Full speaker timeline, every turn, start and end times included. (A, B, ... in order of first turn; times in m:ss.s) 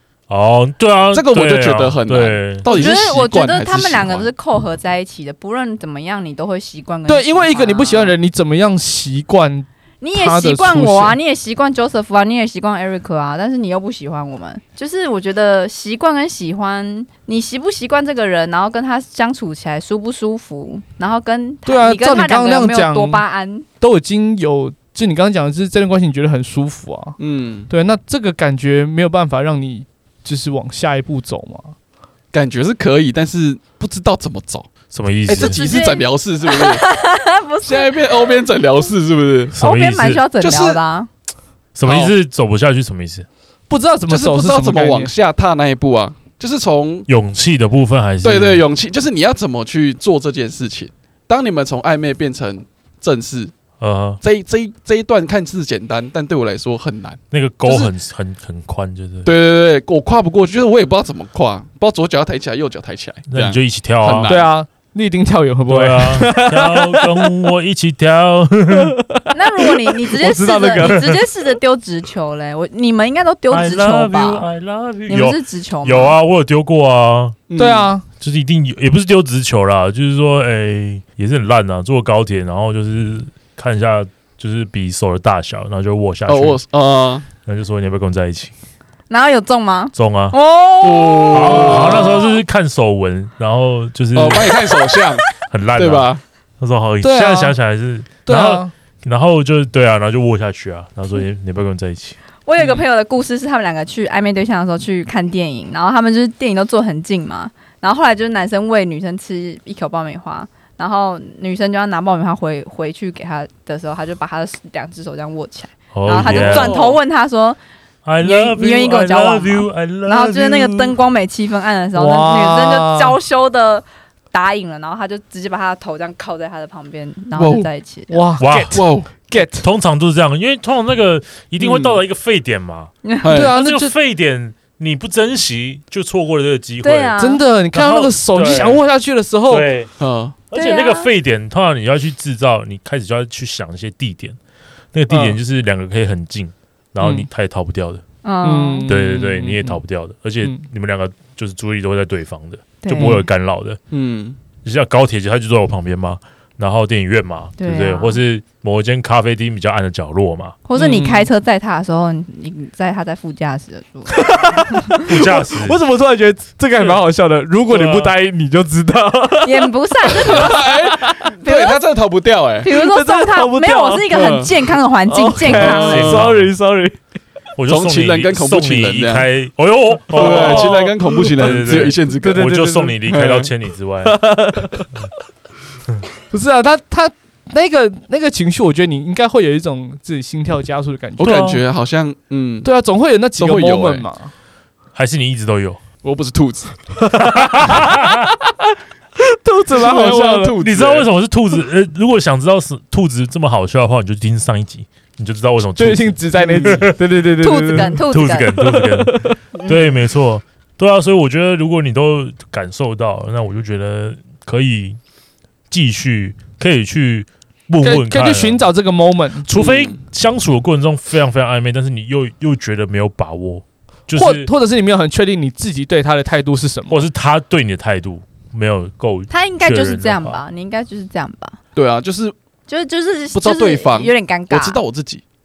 0:00.3-0:02.9 A
0:01.1-0:04.3 B
0:02.7-0:08.2 C
0:07.1-0:11.2 D
0:10.0-0:23.7 C
0:21.7-0:23.2 D
0:23.8-0:31.8 D
0:27.2-0:27.7 B
0:32.3-0:34.7 B
0:34.9-0:35.6 A
0:35.3-0:36.8 B
0:35.4-0:38.4 C
0:37.6-0:39.6 B
0:39.5-0:40.2 A
0:39.6-0:41.1 C
0:40.4-0:40.8 B
0:41.8-0:43.3 A
0:41.8-0:42.1 B
0:43.7-0:45.1 D
0:44.1-0:47.1 B
0:47.1-0:48.6 A
0:48.2-0:53.5 B
0:53.8-0:54.2 A
0:54.2-0:57.9 B
0:57.3-0:59.3 A
0:59.2-1:04.5 B
1:03.3-1:04.4 A
1:04.2-1:07.4 D
1:05.7-1:09.0 A
1:08.7-1:11.2 D
1:09.3-1:14.5 C
1:10.8-1:11.2 A
1:13.5-1:17.4 A
1:15.1-1:16.2 C
1:17.5-1:17.9 B
1:17.6-1:18.0 D
1:18.2-1:26.6 A
1:26.3-1:27.3 B
1:27.4-1:28.5 A
1:29.1-1:32.4 C
1:29.9-1:30.4 A
1:30.8-1:32.2 B
1:31.3-1:34.6 A
1:34.1-1:35.2 B
1:35.4-1:42.2 A
1:35.8-1:36.2 B
1:37.0-1:37.6 D
1:38.2-1:38.7 D
1:42.5-1:57.6 C
1:55.9-1:56.8 A
1:56.2-1:57.0 B
1:58.0-2:01.0 A
1:58.2-2:08.2 C
2:02.0-2:03.2 D
2:07.4-2:07.7 B
2:08.1-2:09.7 D
2:08.4-2:08.9 A
2:08.7-2:09.1 B
2:09.4-2:18.8 A
2:11.6-2:12.0 B
2:13.0-2:13.3 C
2:13.2-2:13.6 B
2:13.3-2:13.9 D
2:16.8-2:17.4 C
2:17.2-2:19.7 D
2:19.5-2:19.9 A
2:20.0-2:20.4 B
2:20.5-2:24.4 A
2:20.5-2:21.1 C
2:24.9-2:28.0 A
2:25.1-2:25.4 D
2:27.0-2:27.3 D
2:28.2-2:28.9 C
2:28.4-2:29.8 D
2:28.9-2:33.8 A
2:32.8-2:33.2 C
2:33.0-2:33.3 D
2:33.9-2:34.4 B
2:34.6-2:40.6 A
2:37.6-2:38.2 C
2:40.7-2:45.0 C
2:40.8-2:41.3 D
2:44.1-2:51.3 D
2:45.0-2:45.8 A
2:47.7-2:48.2 A
2:49.4-2:50.6 C
2:50.2-2:52.7 B
2:51.4-2:51.8 C
2:52.6-2:56.1 C
2:52.6-2:57.0 D
2:54.1-2:54.5 B
2:55.5-2:56.6 A
2:55.5-2:56.3 B
2:57.6-3:04.2 A
2:57.7-2:59.3 B
3:00.1-3:03.0 D
3:00.1-3:02.5 B
3:03.0-3:03.5 B
3:04.0-3:04.9 D
3:06.3-3:11.5 D
3:11.2-3:12.7 B
3:11.2-3:11.6 A
3:12.6-3:14.3 D
3:13.4-3:14.1 B
3:15.0-3:15.8 A
3:16.0-3:16.8 B
3:17.1-3:18.1 D
3:17.2-3:18.3 A
3:19.2-3:20.6 D
3:19.7-3:21.1 B
3:20.6-3:27.0 A
3:25.8-3:29.4 D
3:26.4-3:26.9 B
3:27.4-3:28.6 C
3:27.8-3:35.0 A
3:35.7-3:38.7 A
3:37.8-3:39.5 D
3:39.4-3:44.5 A
3:39.6-3:40.0 B
3:44.2-3:47.0 D
3:46.9-3:50.4 A
3:49.3-3:51.6 C
3:51.8-3:52.3 B
3:52.7-3:54.8 C
3:53.3-3:55.2 B